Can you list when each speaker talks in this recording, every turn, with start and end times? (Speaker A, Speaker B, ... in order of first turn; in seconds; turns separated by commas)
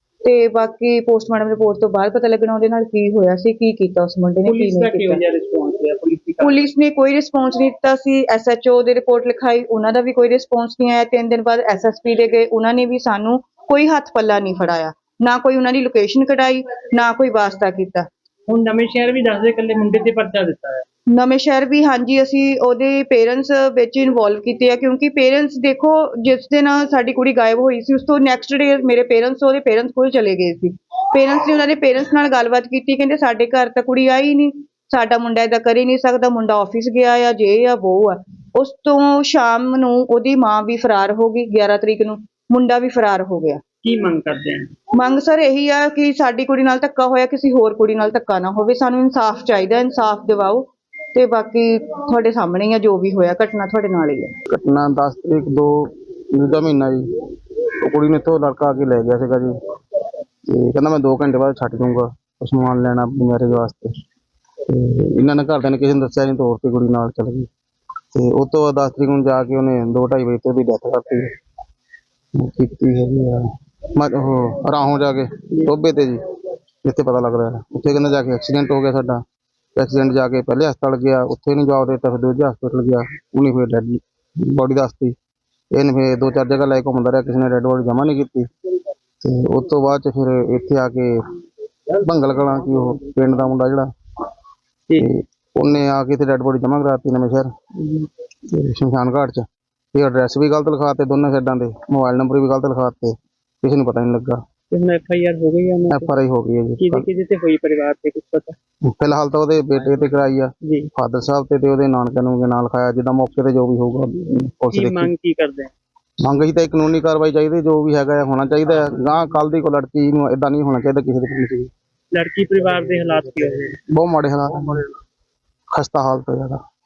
Speaker A: 0.2-5.2, Speaker B: 4.5-6.7, Speaker A: 6.4-18.1, Speaker B: 18.5-20.8, Speaker A: 21.1-43.6, Speaker B: 43.8-44.7, Speaker A: 44.9-54.3, Speaker C: 54.5-57.0, Speaker C: 57.8-59.5, Speaker C: 60.5-63.9, Speaker C: 64.7-67.5, Speaker C: 68.1-71.3, Speaker C: 72.3-76.2, Speaker C: 76.8-79.2, Speaker C: 79.8-85.1, Speaker C: 85.7-88.5, Speaker C: 89.2-91.2, Speaker C: 91.9-93.9, Speaker C: 95.0-97.5, Speaker B: 97.8-98.1, Speaker C: 98.5-104.4, Speaker B: 104.7-106.1, Speaker C: 105.9-107.1, Speaker B: 106.8-108.5, Speaker C: 108.8-115.1, Speaker B: 110.6-110.9, Speaker B: 114.7-115.7, Speaker C: 116.2-121.7, Speaker B: 122.1-123.8, Speaker C: 123.9-124.8, Speaker C: 125.7-126.6